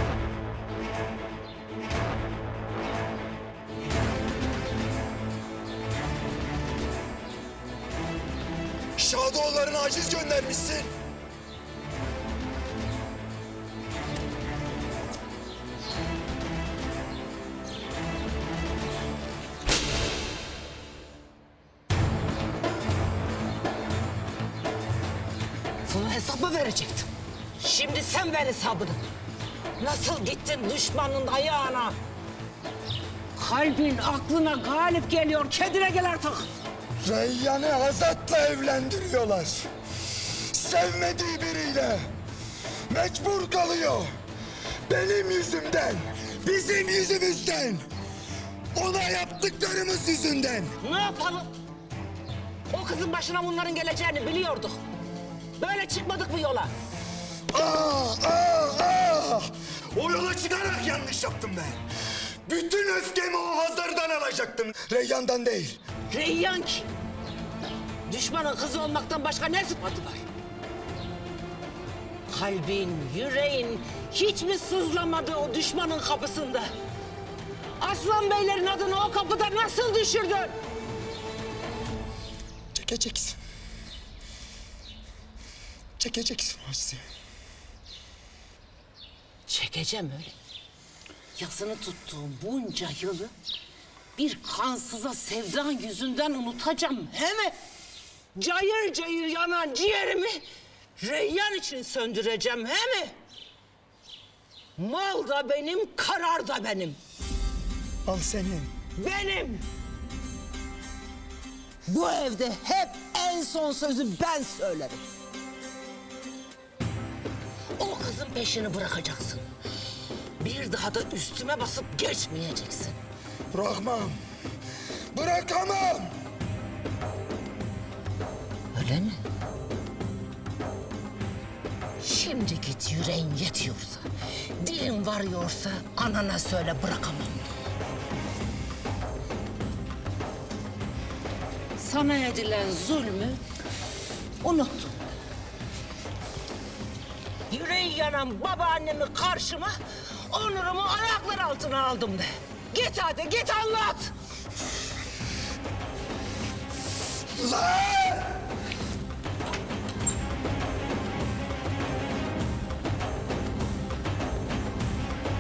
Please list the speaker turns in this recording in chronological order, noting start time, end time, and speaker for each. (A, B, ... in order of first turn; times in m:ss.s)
0:09.0-0:10.9 A
0:25.9-0:29.0 B
0:29.8-0:32.0 B
0:33.4-0:36.5 B
0:37.0-0:39.7 A
0:40.3-0:42.1 A
0:42.9-0:44.1 A
0:44.9-0:47.8 A
0:48.7-0:50.8 A
0:50.8-0:51.5 B
0:52.7-0:54.8 B
0:55.6-0:56.7 B
0:57.5-1:01.8 A
1:02.4-1:05.8 A
1:06.1-1:06.9 B
1:08.1-1:10.2 B
1:12.3-1:16.7 B
1:17.8-1:20.6 B
1:22.7-1:23.4 A
1:26.0-1:27.0 A
1:29.5-1:30.3 B
1:31.4-1:33.3 B
1:34.2-1:37.6 B
1:38.4-1:40.4 B
1:41.0-1:43.2 B
1:44.8-1:47.0 B
1:48.0-1:48.7 A
1:49.0-1:49.6 B
1:51.9-1:55.0 B
1:57.8-1:59.4 B
2:00.4-2:03.0 B
2:03.5-2:04.2 A
2:05.1-2:06.1 A
2:08.7-2:09.2 B
2:12.0-2:17.5 B
2:21.8-2:23.4 B
2:24.4-2:25.0 B
2:27.5-2:34.1 B
2:37.4-2:38.4 A